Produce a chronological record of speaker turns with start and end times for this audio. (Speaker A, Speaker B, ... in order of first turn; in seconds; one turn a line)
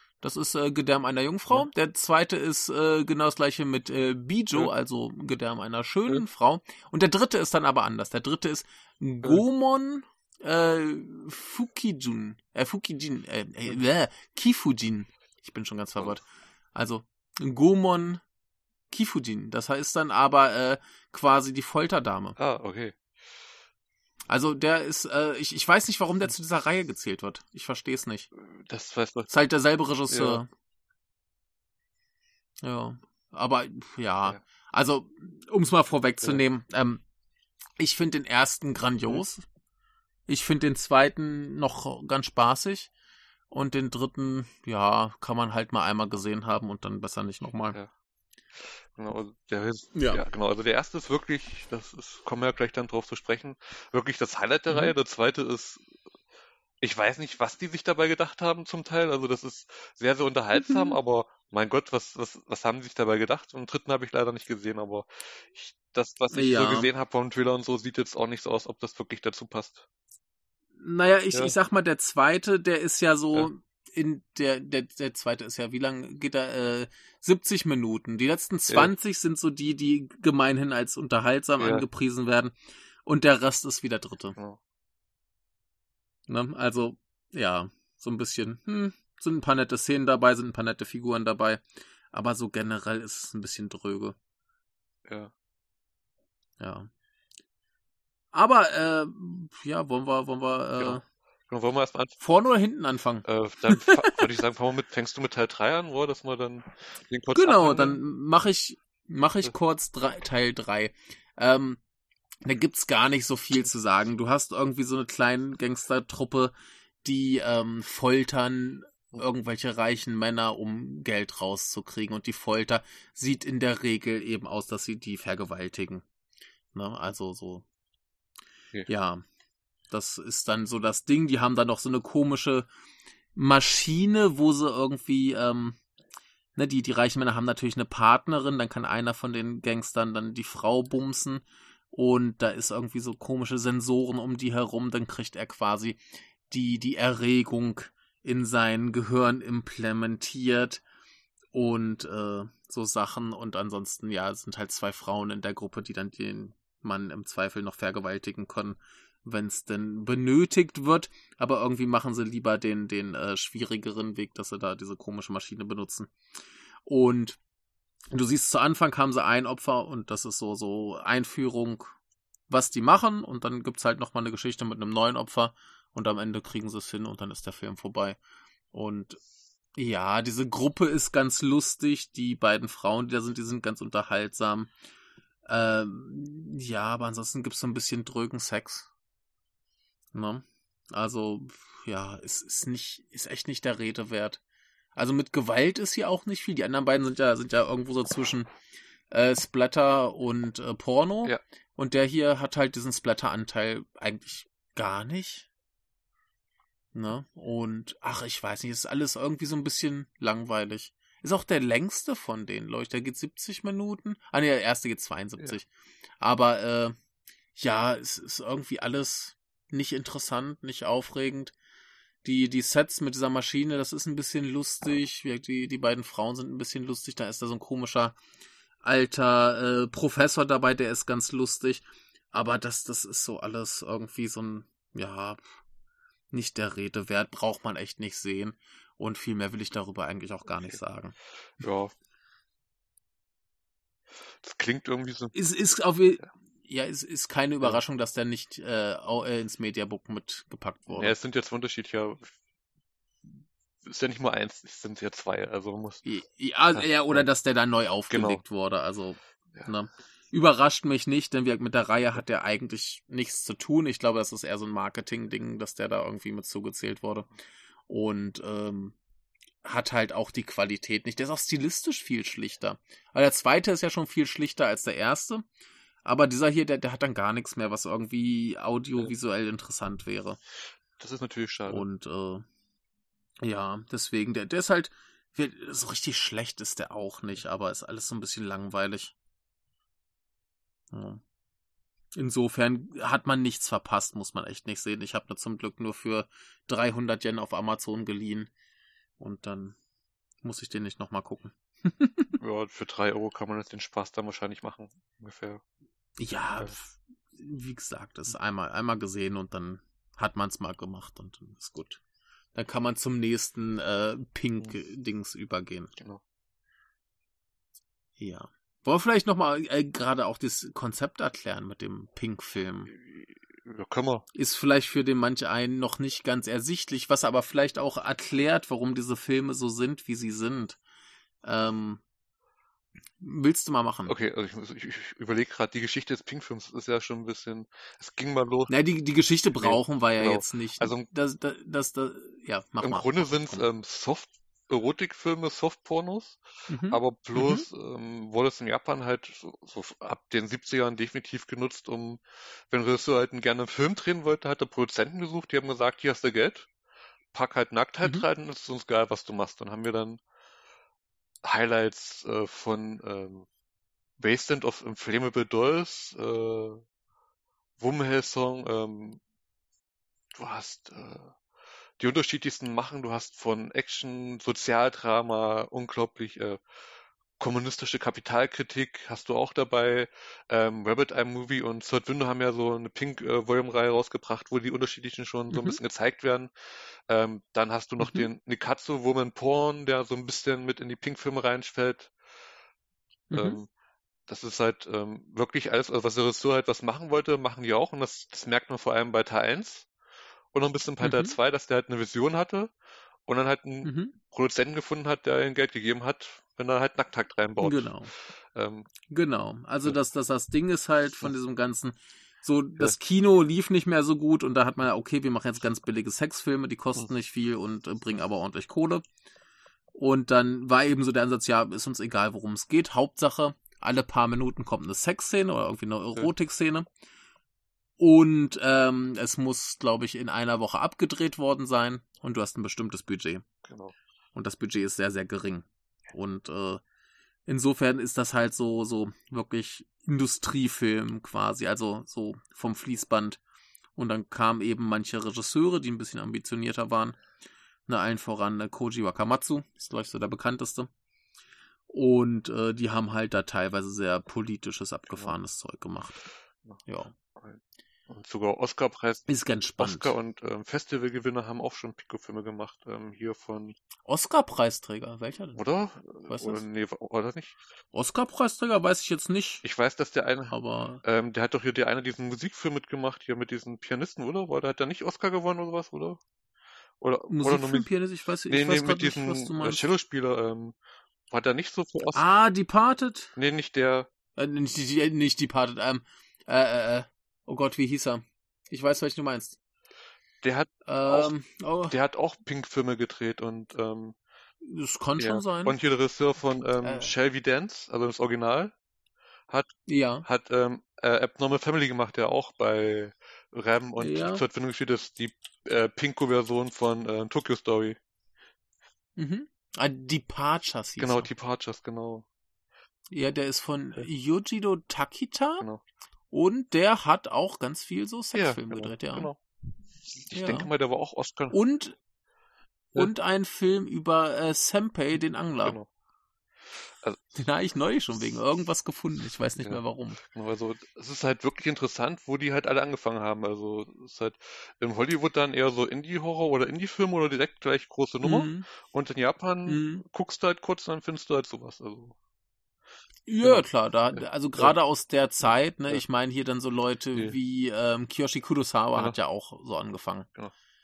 Speaker A: 0.2-18.2
Speaker A: 18.9-22.4
Speaker B: 22.4-22.9
Speaker A: 24.3-28.3
Speaker B: 28.4-29.3
Speaker A: 29.3-30.5
Speaker B: 30.1-30.4
Speaker A: 32.6-37.0
Speaker A: 37.8-39.4
Speaker A: 40.3-42.9
Speaker A: 43.5-47.8
Speaker B: 48.9-55.8
Speaker A: 49.9-50.2
Speaker A: 54.7-54.9
Speaker B: 56.8-69.8
Speaker A: 60.5-61.0
Speaker A: 66.3-66.9
Speaker A: 70.8-84.4
Speaker B: 81.6-81.8
Speaker A: 86.3-94.2
Speaker B: 95.1-95.3
Speaker A: 96.6-96.9
Speaker A: 98.3-101.0
Speaker B: 100.8-102.2
Speaker A: 102.2-104.2
Speaker B: 103.2-108.0
Speaker A: 107.3-111.8
Speaker A: 112.4-126.0
Speaker A: 126.7-127.6
Speaker A: 128.9-129.2
Speaker A: 129.9-132.7
Speaker A: 133.3-135.8
Speaker A: 136.6-150.8
Speaker A: 151.5-166.1
Speaker A: 166.8-167.4
Speaker A: 168.1-171.9
Speaker A: 172.5-178.2
Speaker A: 178.7-179.2
Speaker A: 179.8-184.7
Speaker A: 185.4-188.9
Speaker A: 190.1-194.4
Speaker A: 194.9-198.5
Speaker A: 199.1-205.5
Speaker A: 206.9-215.7
Speaker A: 216.2-216.9
Speaker A: 217.6-221.5
Speaker A: 222.2-228.2
Speaker A: 228.8-235.6
Speaker A: 236.3-241.1
Speaker B: 241.6-241.9
Speaker B: 244.4-245.3
Speaker A: 245.3-251.1
Speaker B: 250.9-252.3
Speaker B: 253.2-256.0
Speaker A: 256.0-267.3
Speaker B: 256.7-257.2
Speaker B: 258.1-258.4
Speaker A: 267.9-268.9
Speaker A: 269.6-275.4
Speaker A: 276.0-280.4
Speaker B: 281.0-281.8
Speaker A: 281.7-282.4
Speaker A: 283.4-289.1
Speaker A: 290.9-291.2
Speaker A: 292.1-298.5
Speaker A: 299.2-299.8
Speaker A: 300.4-302.4
Speaker B: 302.4-305.6
Speaker A: 306.2-312.0
Speaker A: 312.5-315.9
Speaker A: 318.2-322.9
Speaker B: 322.9-324.2
Speaker A: 324.3-330.8
Speaker A: 331.4-332.0
Speaker A: 333.2-334.1
Speaker B: 334.1-338.7
Speaker A: 338.7-343.6
Speaker B: 339.6-341.1
Speaker B: 342.8-356.7
Speaker A: 346.7-347.6
Speaker B: 357.3-360.2
Speaker B: 361.4-363.5
Speaker B: 364.2-366.8
Speaker B: 367.8-369.2
Speaker B: 370.3-371.3
Speaker B: 372.0-376.6
Speaker B: 377.4-386.5
Speaker A: 385.5-385.8
Speaker B: 387.1-392.1
Speaker A: 388.0-388.3
Speaker A: 393.3-393.6
Speaker B: 393.3-393.7
Speaker B: 394.3-399.9
Speaker B: 400.5-402.7
Speaker A: 401.0-401.4
Speaker B: 403.3-408.9
Speaker A: 403.8-404.1
Speaker A: 407.6-408.1
Speaker A: 409.1-419.0
Speaker A: 419.9-426.9
Speaker A: 428.0-433.4
Speaker B: 433.6-433.9
Speaker A: 434.3-436.8
Speaker A: 437.5-443.4
Speaker A: 443.9-447.2
Speaker A: 447.9-450.9
Speaker A: 451.9-456.2
Speaker A: 456.9-457.1
Speaker B: 457.4-463.8
Speaker A: 459.3-460.1
Speaker A: 464.1-465.6
Speaker B: 465.6-467.6
Speaker A: 466.3-466.6
Speaker A: 467.9-469.6
Speaker B: 469.6-476.2
Speaker A: 470.5-471.0
Speaker B: 477.0-477.9
Speaker A: 477.3-479.9
Speaker B: 478.5-480.8
Speaker B: 481.3-482.2
Speaker A: 482.1-483.3
Speaker B: 483.4-484.1
Speaker A: 484.4-489.6
Speaker B: 490.4-491.3
Speaker A: 490.9-491.9
Speaker B: 491.9-494.1
Speaker A: 494.6-495.7
Speaker B: 495.2-498.7
Speaker A: 496.8-497.1
Speaker A: 499.9-500.2
Speaker B: 500.2-508.0
Speaker A: 504.0-504.4
Speaker A: 509.2-511.3
Speaker B: 511.0-512.2
Speaker A: 513.1-515.7
Speaker A: 516.3-519.3
Speaker B: 518.3-519.4
Speaker B: 520.1-521.5
Speaker A: 520.3-520.7
Speaker A: 521.5-522.0
Speaker A: 523.0-525.8
Speaker A: 527.4-530.2
Speaker B: 529.6-542.1
Speaker A: 538.2-538.7
Speaker A: 539.6-540.0
Speaker A: 543.3-550.3
Speaker B: 543.4-544.7